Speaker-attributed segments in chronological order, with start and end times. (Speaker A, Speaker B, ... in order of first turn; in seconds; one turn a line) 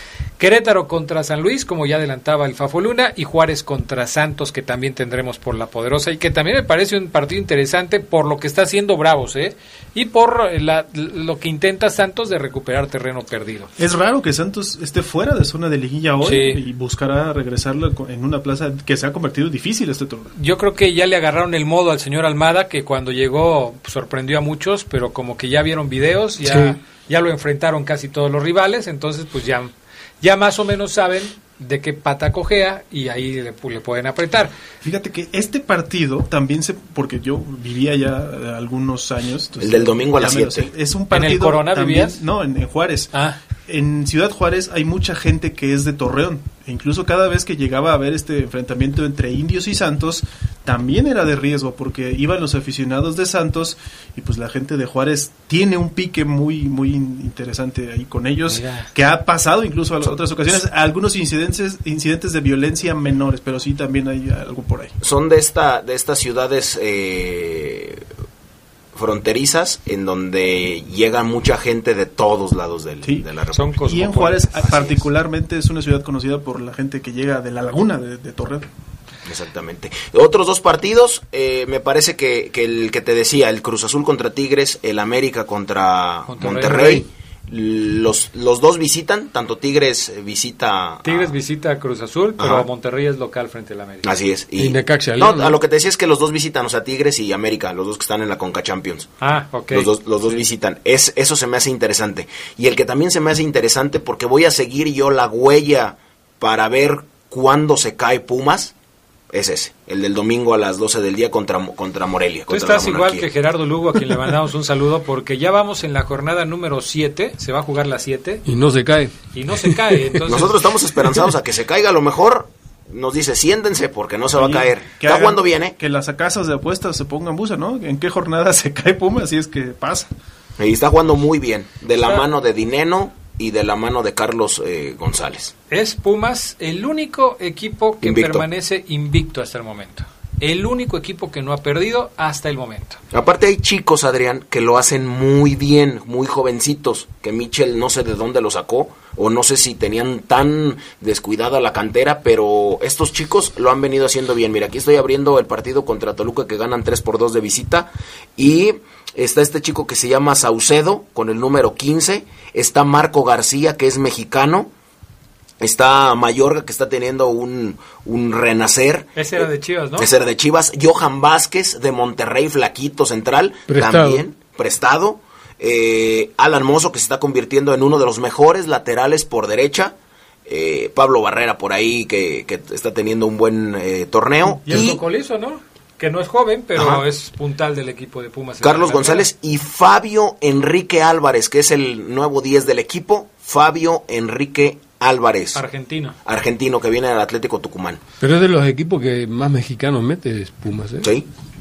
Speaker A: 0.4-13.7
Speaker B: 13.8-20.3
Speaker A: 16.2-16.6
Speaker A: 20.3-34.5
Speaker C: 26.4-26.8
Speaker B: 34.8-43.1
Speaker D: 39.6-40.7
Speaker A: 41.1-42.2
Speaker A: 43.1-43.4
Speaker B: 43.7-64.9
Speaker A: 58.5-58.9
Speaker D: 65.0-68.0
Speaker D: 68.9-73.9
Speaker A: 73.5-74.8
Speaker B: 73.8-78.7
Speaker D: 74.6-75.0
Speaker D: 79.2-91.3
Speaker A: 86.3-87.0
Speaker A: 91.0-94.1
Speaker D: 92.4-92.7
Speaker D: 94.0-99.1
Speaker C: 94.6-95.6
Speaker A: 99.2-99.9
Speaker D: 99.7-108.7
Speaker D: 109.3-113.3
Speaker A: 112.5-118.4
Speaker C: 118.5-120.2
Speaker A: 119.3-120.5
Speaker D: 120.3-125.7
Speaker B: 124.3-130.1
Speaker D: 130.6-135.5
Speaker A: 131.9-132.2
Speaker A: 135.7-143.0
Speaker D: 138.0-138.4
Speaker D: 143.1-164.7
Speaker D: 165.6-169.4
Speaker A: 169.2-170.1
Speaker D: 169.9-179.9
Speaker C: 173.7-174.2
Speaker D: 180.4-185.0
Speaker A: 184.6-189.2
Speaker D: 186.8-187.0
Speaker D: 188.6-195.6
Speaker A: 195.5-196.2
Speaker D: 196.2-198.0
Speaker C: 198.2-201.1
Speaker D: 201.0-201.3